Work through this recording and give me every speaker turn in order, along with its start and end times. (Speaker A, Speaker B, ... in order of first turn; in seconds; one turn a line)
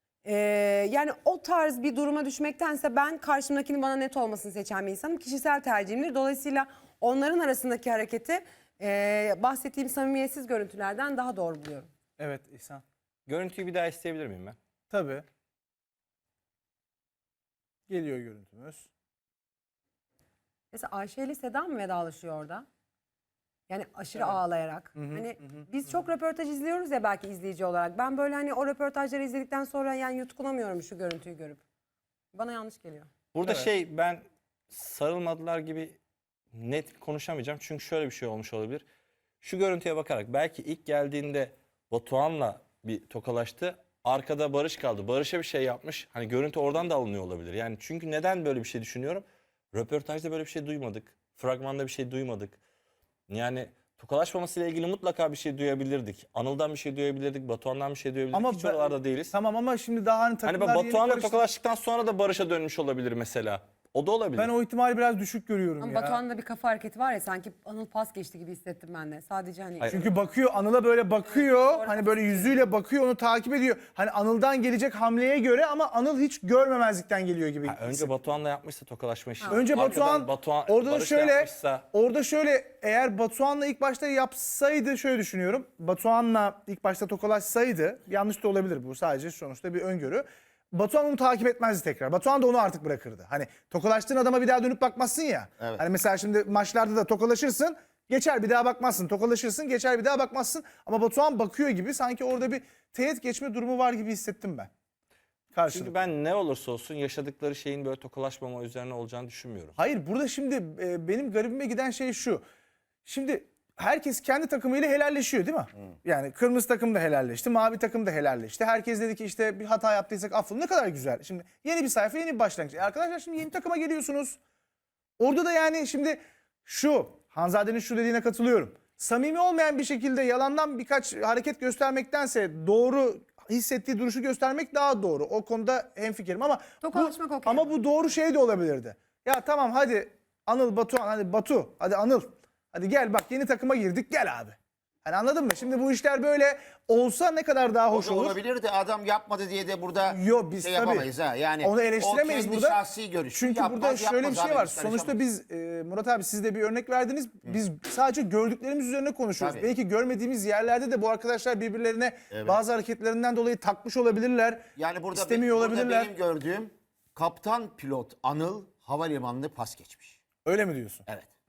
Speaker A: 0.2-11.9
Speaker B: 12.2-12.8
Speaker C: 13.3-14.6
Speaker B: 14.9-15.2
Speaker B: 17.9-18.9
Speaker A: 20.7-22.7
Speaker A: 23.7-31.6
Speaker B: 25.0-25.6
Speaker A: 32.3-33.1
Speaker C: 33.3-36.0
Speaker C: 36.5-38.8
Speaker C: 39.4-52.6
Speaker C: 53.3-59.3
Speaker B: 58.3-61.4
Speaker C: 60.4-64.5
Speaker B: 64.3-66.2
Speaker A: 65.8-70.1
Speaker B: 69.9-78.1
Speaker A: 71.3-72.6
Speaker C: 77.7-81.8
Speaker A: 79.4-80.0
Speaker B: 79.5-104.7
Speaker B: 105.5-106.0
Speaker C: 105.7-109.7
Speaker B: 109.8-112.4
Speaker B: 113.0-124.4
Speaker B: 125.2-148.4
Speaker A: 136.8-137.7
Speaker D: 147.9-155.2
Speaker B: 150.1-151.1
Speaker B: 151.6-152.8
Speaker B: 153.3-166.1
Speaker D: 159.4-159.7
Speaker D: 162.3-162.6
Speaker D: 164.8-170.2
Speaker B: 170.4-171.1